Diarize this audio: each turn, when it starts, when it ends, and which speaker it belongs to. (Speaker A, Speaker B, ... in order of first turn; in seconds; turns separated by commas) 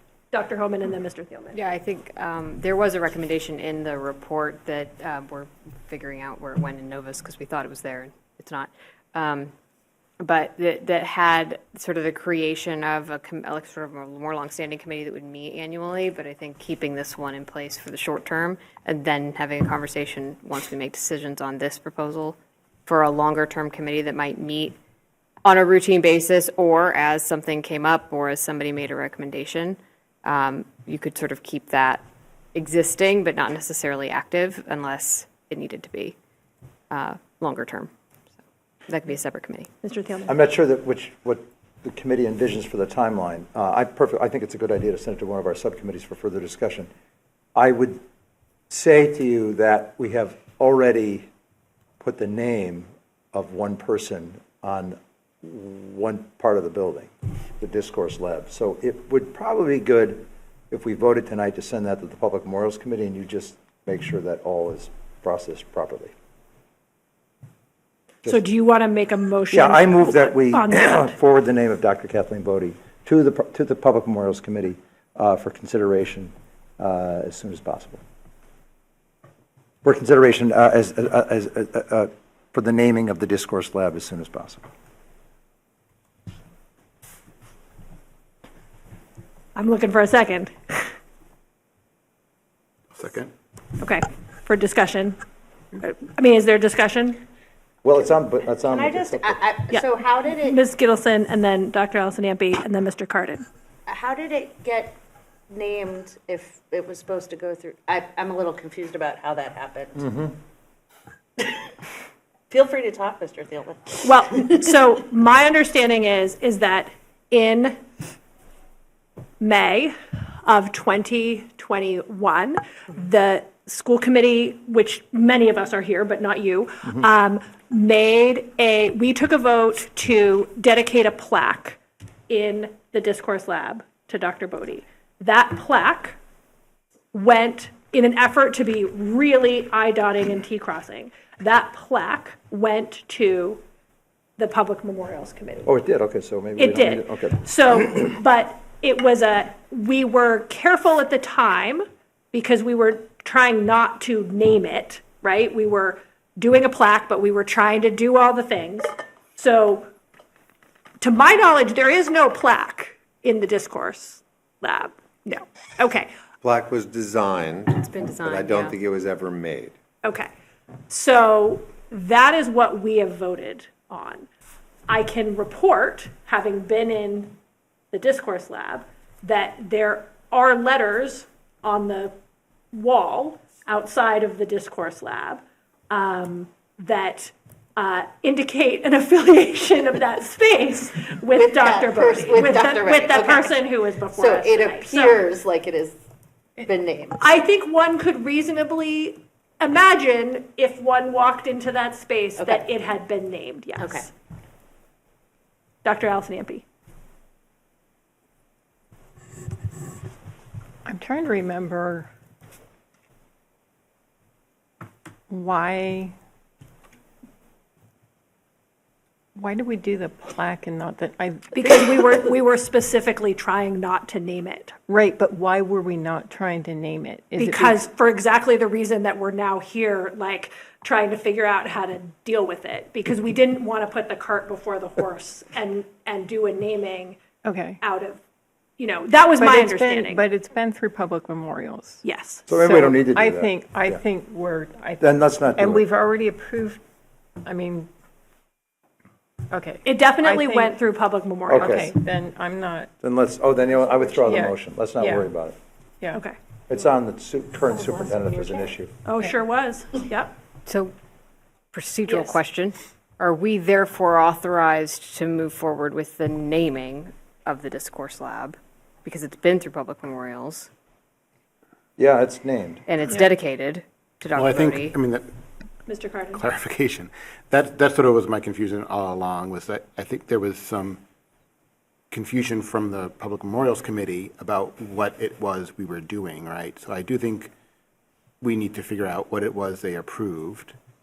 Speaker A: 0.3-1.6, Speaker B: 1.5-9.5, Speaker B: 10.2-24.8, Speaker B: 25.4-32.0, Speaker B: 32.5-36.1, Speaker B: 36.9-37.9, Speaker B: 38.9-39.7, Speaker A: 39.8-40.4, Speaker C: 40.3-46.9, Speaker C: 47.5-48.0, Speaker C: 48.7-51.2, Speaker C: 52.0-66.1, Speaker A: 68.2-71.1, Speaker C: 69.5-78.0, Speaker C: 79.8-84.6, Speaker A: 89.5-90.9, Speaker D: 92.9-93.3, Speaker A: 93.8-95.2, Speaker A: 95.8-97.2, Speaker C: 97.8-99.4, Speaker E: 98.6-100.6, Speaker A: 99.7-103.4, Speaker E: 103.9-105.0, Speaker E: 105.5-110.3, Speaker E: 112.5-114.6, Speaker A: 114.0-117.8, Speaker A: 119.4-136.2, Speaker A: 137.1-143.6, Speaker A: 144.4-145.7, Speaker C: 145.6-147.9, Speaker A: 146.6-159.9, Speaker A: 161.0-166.1, Speaker F: 166.4-169.7, Speaker B: 167.8-168.8, Speaker A: 170.0-170.3, Speaker A: 170.9-174.3, Speaker A: 174.9-177.3, Speaker A: 177.9-182.1, Speaker A: 182.7-195.2, Speaker E: 191.3-196.0, Speaker E: 196.6-197.3, Speaker A: 197.2-204.1, Speaker E: 202.4-202.6, Speaker E: 203.8-204.1, Speaker A: 205.8-206.6, Speaker G: 210.8-212.1, Speaker G: 215.3-216.1, Speaker G: 219.3-222.2, Speaker A: 221.5-224.7, Speaker G: 224.9-227.8, Speaker A: 227.4-237.2, Speaker G: 237.4-237.8, Speaker A: 237.8-238.2, Speaker A: 238.8-240.2, Speaker G: 239.4-246.8, Speaker A: 242.0-242.5, Speaker C: 242.5-244.0, Speaker C: 245.0-245.8, Speaker G: 247.4-247.9, Speaker G: 249.5-250.8, Speaker A: 249.8-251.8, Speaker C: 251.5-251.9, Speaker G: 251.6-252.9, Speaker C: 253.0-255.6, Speaker G: 254.2-255.3, Speaker C: 256.7-258.9, Speaker E: 257.8-258.6, Speaker A: 259.0-260.3, Speaker B: 260.6-260.9, Speaker B: 261.7-270.7, Speaker A: 262.1-262.3, Speaker C: 272.0-272.8, Speaker B: 272.9-275.0, Speaker D: 274.3-275.3, Speaker A: 275.9-276.5, Speaker D: 276.3-281.0, Speaker D: 282.1-287.5, Speaker D: 288.4-290.7